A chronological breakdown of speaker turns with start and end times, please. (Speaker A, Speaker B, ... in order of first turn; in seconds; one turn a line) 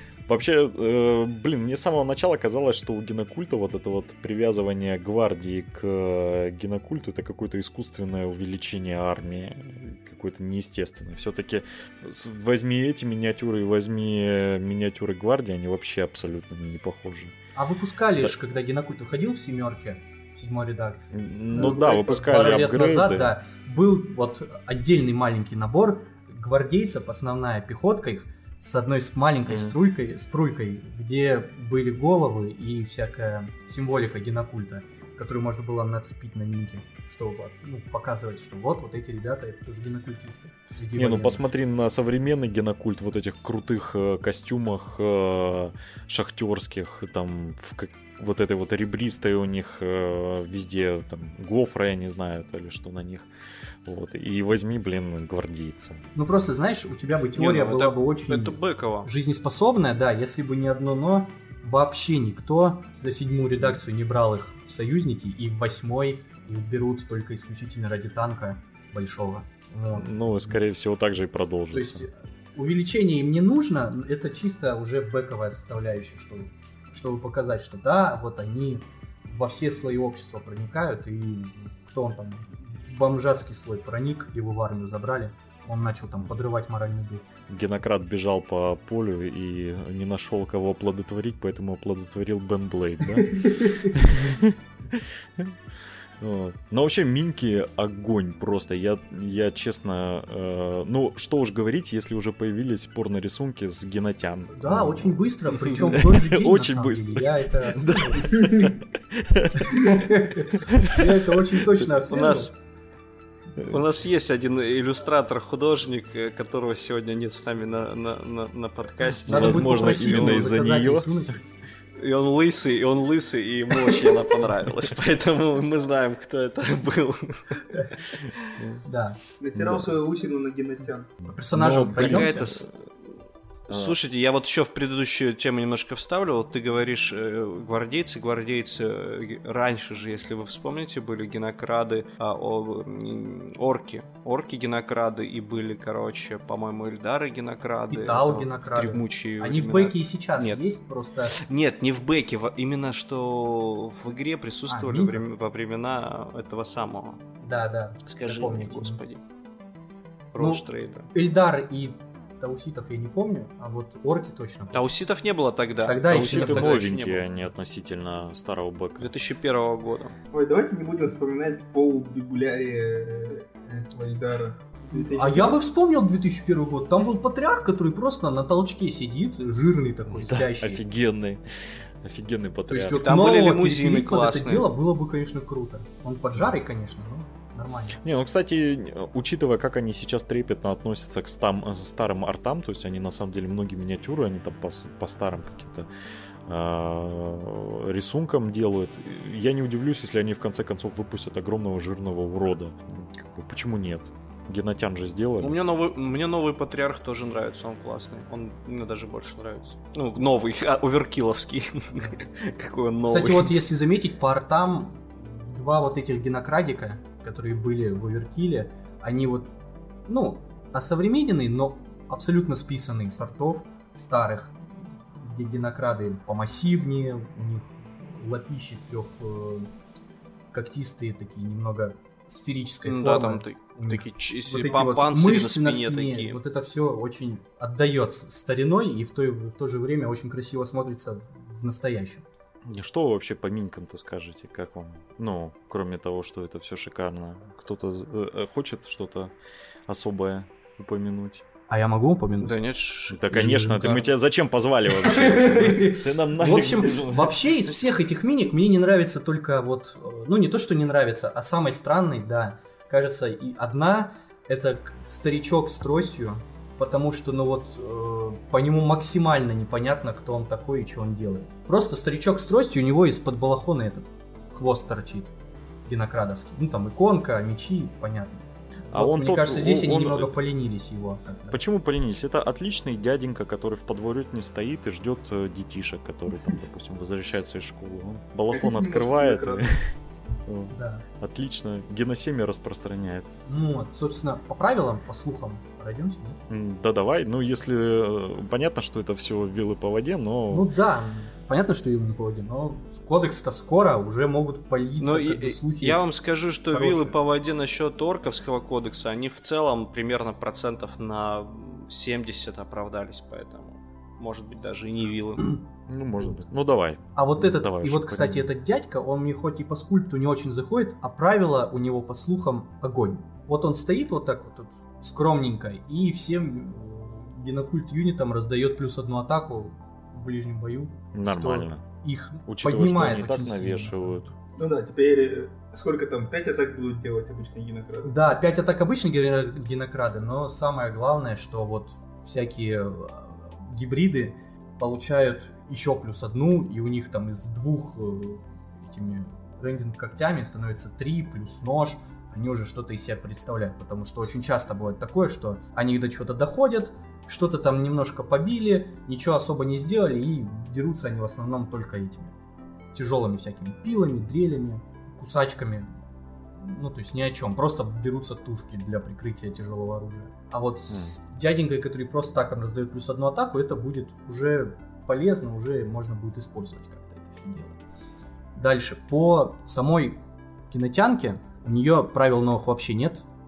Speaker A: 0.3-17.4
Speaker B: 17.6-41.4
Speaker A: 21.1-23.3
Speaker A: 29.5-29.8
Speaker A: 40.9-53.3
Speaker A: 53.9-56.0
Speaker B: 56.1-70.6
Speaker C: 57.3-59.1
Speaker A: 70.0-72.1
Speaker B: 71.7-87.2
Speaker A: 87.5-95.5
Speaker A: 96.2-111.8
Speaker B: 104.5-108.6
Speaker B: 109.7-112.5
Speaker C: 112.1-112.5
Speaker C: 113.6-120.3
Speaker A: 119.3-121.1
Speaker B: 119.3-121.4
Speaker C: 122.0-128.3
Speaker A: 128.6-128.8
Speaker B: 128.8-129.2
Speaker D: 129.4-131.1
Speaker A: 129.6-130.0
Speaker B: 131.3-132.7
Speaker A: 131.5-132.4
Speaker C: 132.0-132.8
Speaker C: 133.7-150.6
Speaker A: 133.7-134.0
Speaker B: 147.9-151.4
Speaker C: 151.3-157.2
Speaker B: 154.7-155.2
Speaker B: 157.4-159.0
Speaker C: 158.1-159.2
Speaker C: 160.3-161.1
Speaker B: 160.4-160.6
Speaker B: 161.1-164.9
Speaker C: 164.7-167.3
Speaker B: 165.8-166.9
Speaker A: 166.1-169.1
Speaker C: 169.0-170.2
Speaker D: 170.3-175.6
Speaker B: 174.9-180.8
Speaker A: 180.1-181.4
Speaker A: 182.0-183.0
Speaker B: 182.7-188.0
Speaker C: 183.0-184.7
Speaker A: 188.0-195.9
Speaker A: 196.5-205.6
Speaker C: 205.4-213.6
Speaker B: 213.1-219.5
Speaker B: 220.1-229.7
Speaker B: 230.5-242.2
Speaker C: 232.8-236.4
Speaker A: 242.7-249.3
Speaker A: 249.9-251.5
Speaker B: 251.7-252.6
Speaker C: 252.4-253.2
Speaker A: 253.1-257.4
Speaker B: 253.3-254.1
Speaker B: 254.9-275.3
Speaker B: 275.9-281.6
Speaker A: 278.9-280.3
Speaker A: 281.5-289.9
Speaker D: 288.5-289.7
Speaker A: 290.5-293.3
Speaker B: 290.7-291.1
Speaker B: 293.5-296.4
Speaker A: 296.5-300.7
Speaker B: 300.5-306.0
Speaker C: 305.0-315.6
Speaker B: 306.7-307.2
Speaker A: 315.9-318.5
Speaker B: 317.2-334.2
Speaker A: 331.1-331.8
Speaker A: 332.5-334.3
Speaker D: 334.6-338.1
Speaker B: 338.1-362.3
Speaker B: 362.9-365.9
Speaker B: 366.6-377.8
Speaker A: 370.9-371.1
Speaker B: 378.6-383.3